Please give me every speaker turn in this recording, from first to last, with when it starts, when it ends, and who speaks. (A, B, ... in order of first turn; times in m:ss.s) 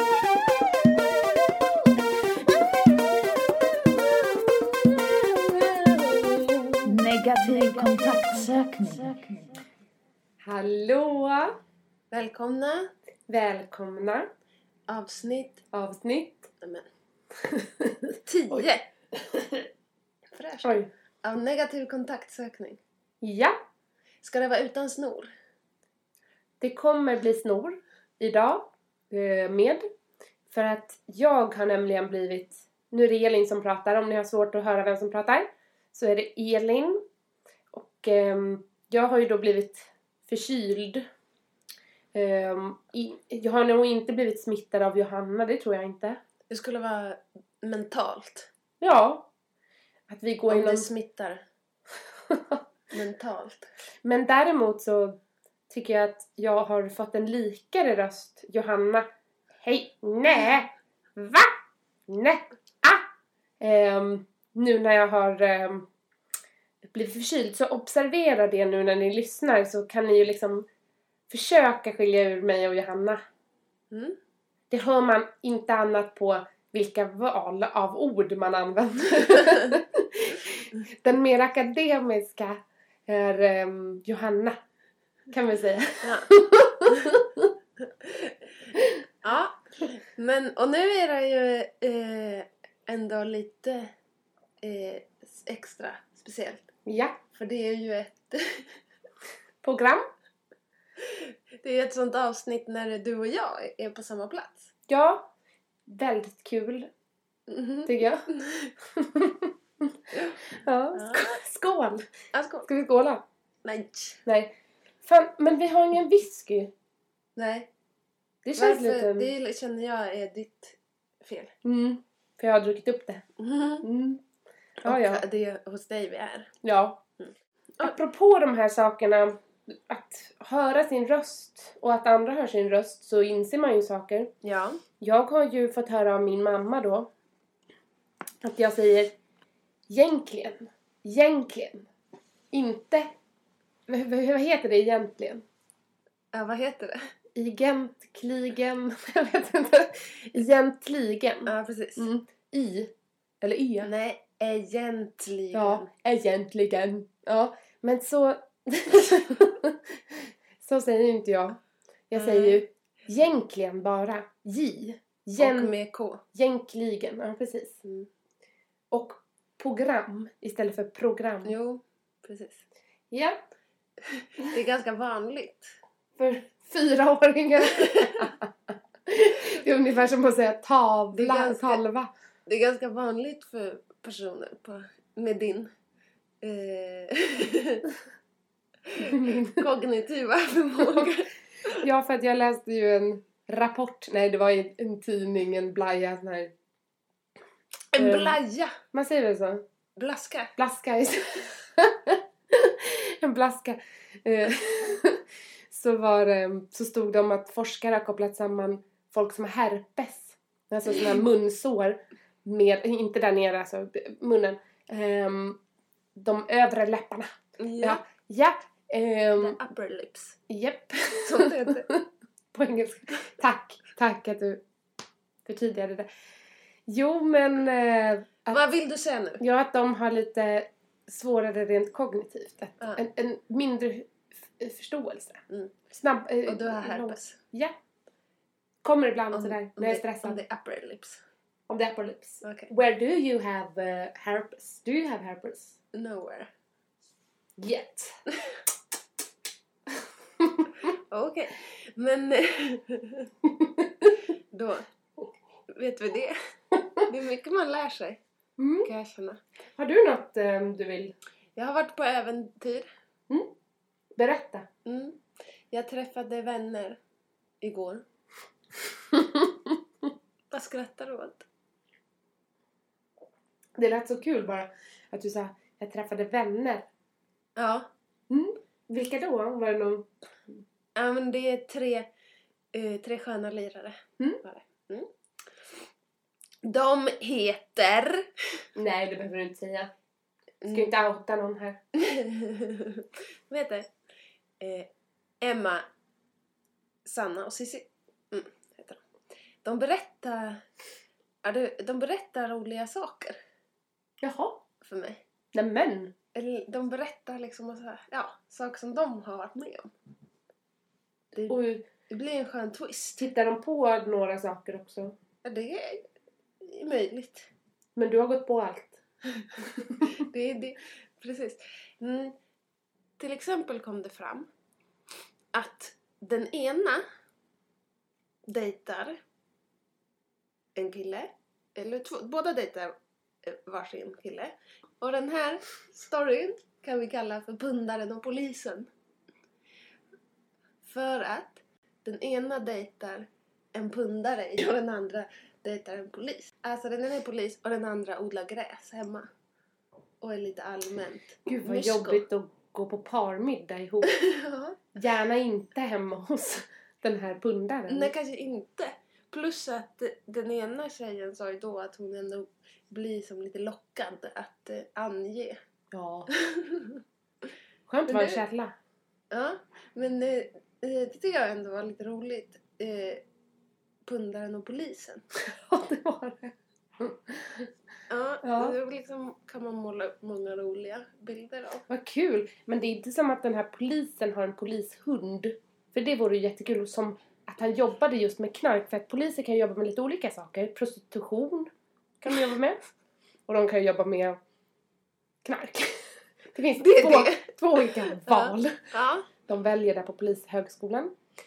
0:00.2-0:01.9 A
0:02.5-0:06.8 A
0:06.8-0:09.6 B
0:10.4-0:11.6 A
0:12.1-0:12.9 C
0:13.3-0:14.3 A
0:14.9-0:15.6 C
0:15.7-0:16.5 A
0:16.6-0:16.9 C
0:17.4-0:19.7 A
0:18.2-0:18.9 C
0:20.3-0:22.8 C
0:20.6-0:20.9 A
0:23.2-0:23.6 A
0:24.2-0:25.3 C
0:26.6-0:29.8 A
0:30.5-0:37.0 A
0:37.7-0:41.1 A
0:42.1-0:46.2 A
0:46.5-0:48.5 C
0:48.8-0:49.3 A
0:50.1-0:50.9 A
0:50.5-0:51.4 C
0:52.3-0:52.6 A
0:52.9-0:53.7 C
0:54.0-0:55.2 A
0:55.7-0:59.1 A
0:59.6-1:01.5 A
1:02.1-1:03.0 A
1:03.6-1:05.9 A
1:06.8-1:10.7 A
1:11.3-1:13.2 A
1:13.9-1:14.2 C
1:14.7-1:24.6 A
1:25.3-1:27.5 A
1:26.0-1:26.3 C
1:28.0-1:28.3 C
1:29.2-1:33.9 C
1:34.6-1:36.7 C
1:36.9-1:37.2 A
1:37.3-1:38.7 C
1:39.6-1:40.1 A
1:41.1-1:44.7 C
1:44.9-1:45.3 A
1:45.9-1:46.9 A
1:47.5-1:48.7 C
1:47.9-1:48.3 A
1:48.9-1:50.0 A
1:50.1-1:50.4 C
1:50.5-1:52.1 A
1:50.9-1:51.4 C
1:52.3-1:52.7 C
1:52.7-1:53.2 A
1:53.6-1:54.2 C
1:54.3-1:56.7 A
1:57.4-1:57.7 C
1:58.4-1:59.3 A
1:58.6-2:01.5 C
2:01.6-2:03.2 A
2:03.4-2:03.9 C
2:03.8-2:04.2 A
2:04.8-2:06.5 C
2:04.8-2:05.2 A
2:06.6-2:07.0 A
2:07.8-2:14.3 A
2:14.4-2:14.8 C
2:15.0-2:17.1 A
2:18.4-2:19.1 A
2:19.9-2:21.9 A
2:22.5-2:23.1 A
2:23.9-2:25.4 A
2:26.3-2:27.0 C
2:27.4-2:33.9 A
2:31.4-2:32.1 C
2:33.8-2:35.9 C
2:35.5-2:41.6 A
2:42.1-2:45.7 A
2:42.1-2:42.6 C
2:45.4-2:46.2 C
2:46.3-2:47.8 A
2:47.8-2:48.1 C
2:48.9-2:51.6 A
2:51.4-2:52.6 C
2:53.1-2:53.5 A
2:54.4-2:55.7 C
2:56.2-3:02.1 A
3:01.1-3:01.8 C
3:02.5-3:05.7 C
3:06.4-3:07.9 C
3:09.0-3:11.8 C
3:09.0-3:09.6 A
3:10.8-3:11.1 A
3:11.8-3:16.5 A
3:17.9-3:18.8 C
3:18.0-3:18.4 A
3:18.9-3:19.6 A
3:20.0-3:20.6 C
3:20.6-3:35.6 A
3:36.2-3:39.6 A
3:37.6-3:38.0 C
3:39.4-3:40.4 C
3:40.5-3:44.6 A
3:41.2-3:41.9 C
3:45.4-3:46.1 A
3:46.9-3:48.6 A
3:48.5-3:49.4 C
3:49.4-3:55.4 A
3:55.5-3:55.8 C
3:55.9-3:57.8 A
3:56.5-3:57.4 C
3:58.8-4:00.4 A
3:59.3-4:01.2 C
4:01.7-4:05.8 A
4:02.4-4:02.7 C
4:05.9-4:06.5 C
4:07.6-4:08.2 A
4:10.4-4:10.7 A
4:11.1-4:13.3 C
4:13.4-4:14.1 A
4:14.5-4:14.9 C
4:15.7-4:16.4 C
4:17.0-4:18.2 C
4:18.6-4:18.9 A
4:18.8-4:19.4 C
4:19.8-4:21.2 A
4:21.6-4:22.9 C
4:24.2-4:24.7 A
4:24.8-4:27.0 C
4:27.6-4:28.0 C
4:29.1-4:29.8 A
4:30.5-4:31.4 C
4:33.8-4:36.9 A
4:37.6-4:37.9 C
4:38.3-4:40.1 A
4:41.0-4:42.1 C
4:42.7-4:45.1 C
4:46.6-4:48.3 C
4:48.8-4:49.9 A
4:50.6-4:50.9 C
4:50.7-4:51.8 A
4:52.0-4:53.9 C
4:54.6-4:54.9 C
4:55.4-4:55.8 C
4:57.0-4:59.0 C
4:59.6-5:00.6 C
5:01.4-5:03.4 C
5:04.2-5:04.6 A
5:04.8-5:05.2 C
5:05.5-5:06.1 A
5:06.4-5:09.9 C
5:11.3-5:13.3 C
5:11.5-5:11.9 A
5:13.2-5:15.2 A
5:15.4-5:16.1 C
5:16.6-5:17.5 C
5:18.0-5:19.0 A
5:20.0-5:22.4 C
5:23.2-5:24.5 C
5:25.5-5:27.0 C
5:28.5-5:29.2 C
5:30.8-5:38.9 C
5:40.8-5:49.3 C
5:50.2-5:52.2 C
5:51.5-5:54.1 A
5:54.2-5:55.0 C
5:55.0-5:58.1 A
5:57.9-6:05.6 C
6:05.9-6:06.3 A
6:06.4-6:07.0 C
6:07.9-6:08.7 A
6:08.1-6:08.4 C
6:09.3-6:13.2 C
6:14.1-6:15.2 C
6:15.5-6:17.7 A
6:18.1-6:21.8 C
6:18.4-6:18.8 A
6:21.9-6:31.7 A
6:32.2-6:32.8 A
6:33.5-6:34.4 A
6:35.4-6:36.0 A
6:36.5-6:38.8 A
6:36.8-6:39.3 C
6:39.5-6:41.1 A